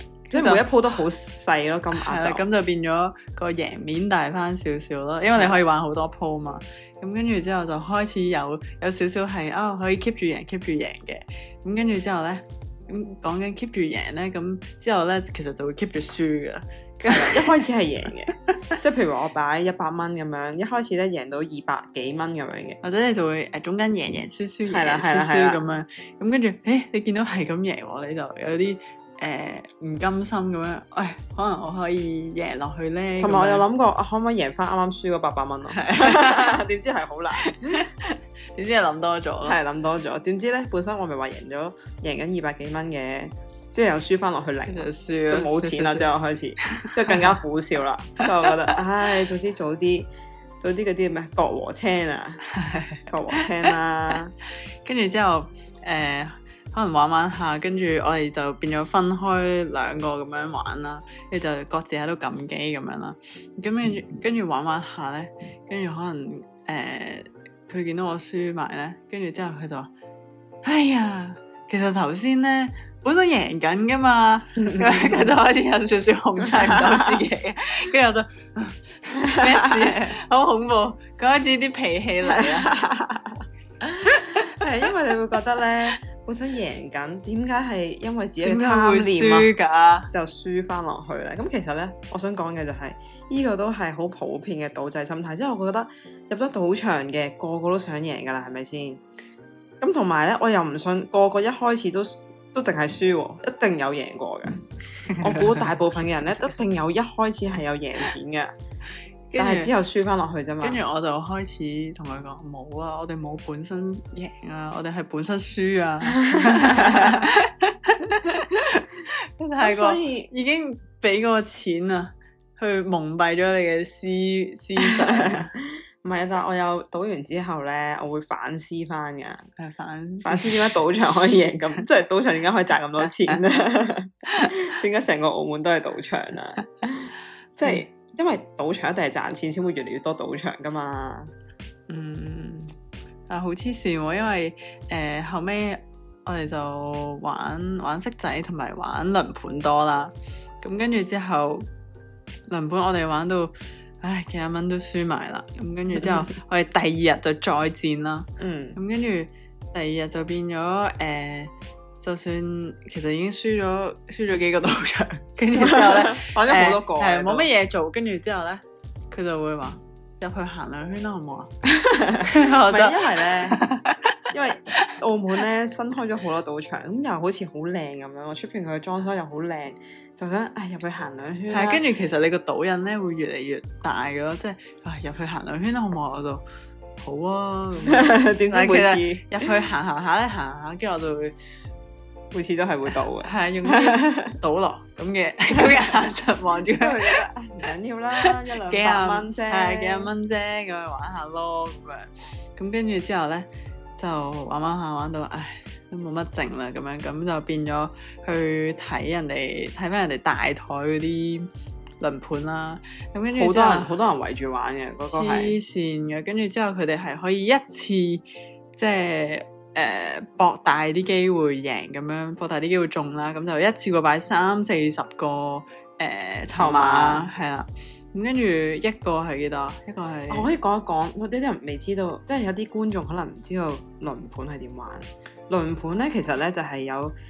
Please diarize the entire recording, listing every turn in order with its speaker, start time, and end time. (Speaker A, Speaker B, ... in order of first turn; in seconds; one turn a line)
Speaker A: 0.3-2.5
Speaker B: 0.3-0.7
Speaker B: 1.9-17.5
Speaker A: 17.1-22.8
Speaker B: 22.8-33.7
Speaker A: 24.7-25.6
Speaker A: 33.2-37.8
Speaker B: 35.7-36.5
Speaker B: 37.4-39.6
Speaker A: 39.4-50.1
Speaker B: 44.7-46.1
Speaker B: 46.8-47.3
Speaker A: 50.6-52.4
Speaker B: 52.5-53.4
Speaker A: 53.1-54.3
Speaker B: 54.8-69.9
Speaker B: 70.6-82.7
Speaker A: 74.8-75.2
Speaker A: 76.4-77.2
Speaker A: 79.4-80.2
Speaker A: 82.3-89.5
Speaker B: 88.4-90.1
Speaker A: 90.1-99.0
Speaker A: 99.8-104.6
Speaker A: 105.2-108.5
Speaker B: 109.3-109.7
Speaker A: 109.4-110.8
Speaker B: 110.6-125.5
Speaker A: 119.6-120.3
Speaker A: 124.8-129.5
Speaker B: 129.6-130.8
Speaker A: 130.2-141.3
Speaker B: 141.9-142.7
Speaker B: 143.3-151.7
Speaker B: 152.5-171.5
Speaker A: 158.4-158.8
Speaker A: 165.6-167.5
Speaker A: 171.7-173.6
Speaker B: 172.2-174.2
Speaker A: 174.3-181.8
Speaker B: 181.5-186.4
Speaker B: 187.0-191.3
Speaker A: 187.9-189.3
Speaker A: 192.3-194.3
Speaker B: 193.2-197.2
Speaker A: 196.7-200.1
Speaker B: 198.2-211.5
Speaker B: 212.0-213.9
Speaker A: 213.3-215.6
Speaker B: 215.1-218.2
Speaker B: 218.8-230.5
Speaker A: 226.5-227.3
Speaker A: 230.3-237.1